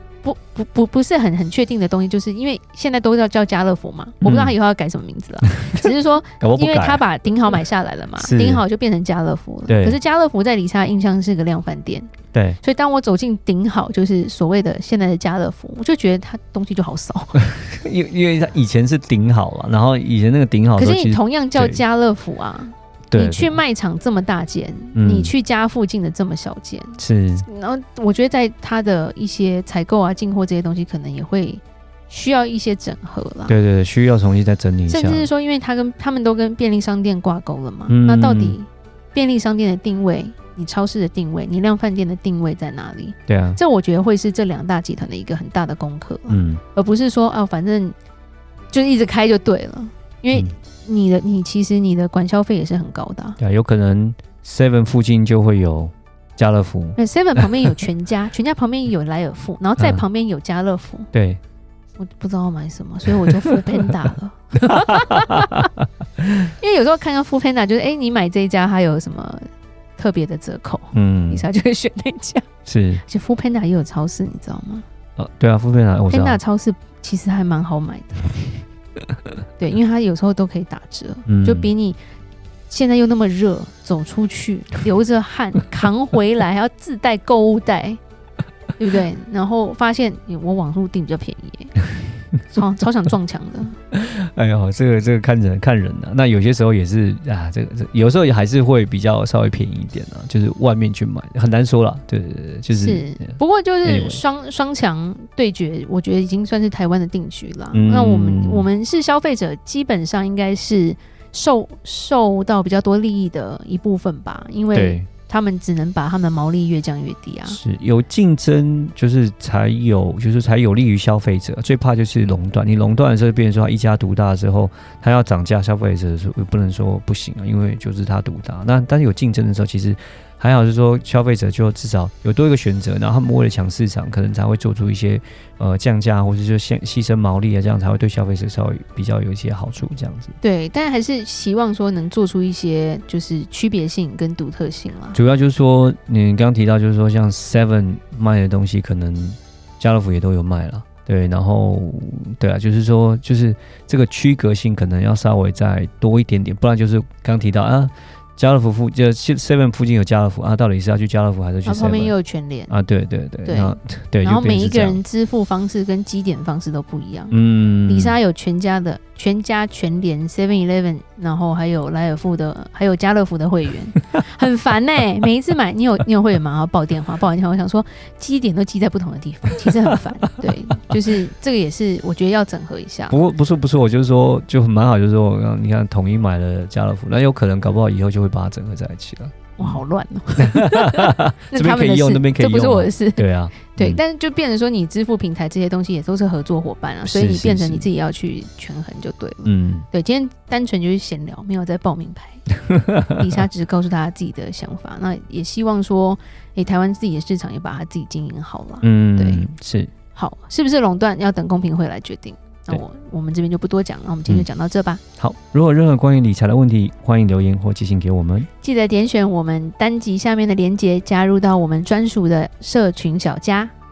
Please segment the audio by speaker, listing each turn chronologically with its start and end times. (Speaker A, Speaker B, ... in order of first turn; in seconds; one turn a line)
Speaker A: 0.2-12.1
Speaker B: 4.2-4.5
Speaker B: 5.4-7.0
Speaker B: 8.2-8.6
Speaker B: 9.7-10.0
Speaker B: 12.3-12.6
Speaker A: 12.6-17.4
Speaker B: 17.4-21.8
Speaker A: 20.8-33.5
Speaker B: 23.1-23.6
Speaker B: 24.9-25.3
Speaker B: 27.0-27.4
Speaker B: 33.5-35.3
Speaker A: 34.9-48.0
Speaker B: 37.9-38.6
Speaker B: 43.3-43.6
Speaker B: 46.3-46.6
Speaker A: 48.7-53.4
Speaker B: 53.4-57.6
Speaker A: 57.0-61.1
Speaker B: 61.1-61.4
Speaker A: 62.0-65.7
Speaker B: 63.2-63.5
Speaker B: 64.6-65.8
Speaker A: 66.6-72.5
Speaker B: 70.9-71.5
Speaker B: 72.7-73.0
Speaker A: 73.0-74.8
Speaker B: 75.2-76.4
Speaker A: 76.1-78.6
Speaker A: 79.6-82.0
Speaker B: 81.3-81.7
Speaker A: 82.7-88.0
Speaker A: 88.8-91.8
Speaker A: 92.5-93.8
Speaker B: 93.9-104.2
Speaker A: 102.7-117.6
Speaker B: 107.7-108.7
Speaker B: 114.7-115.1
Speaker B: 117.5-140.3
Speaker A: 140.4-145.2
Speaker B: 145.1-162.1
Speaker A: 161.7-162.7
Speaker B: 162.7-165.0
Speaker A: 163.4-183.2
Speaker B: 167.3-168.2
Speaker B: 183.1-189.8
Speaker A: 189.6-202.5
Speaker B: 190.4-194.0
Speaker B: 197.0-197.9
Speaker B: 199.4-199.9
Speaker B: 202.8-203.2
Speaker A: 203.1-209.4
Speaker B: 208.8-209.9
Speaker A: 210.2-215.0
Speaker B: 215.2-218.5
Speaker A: 218.6-223.7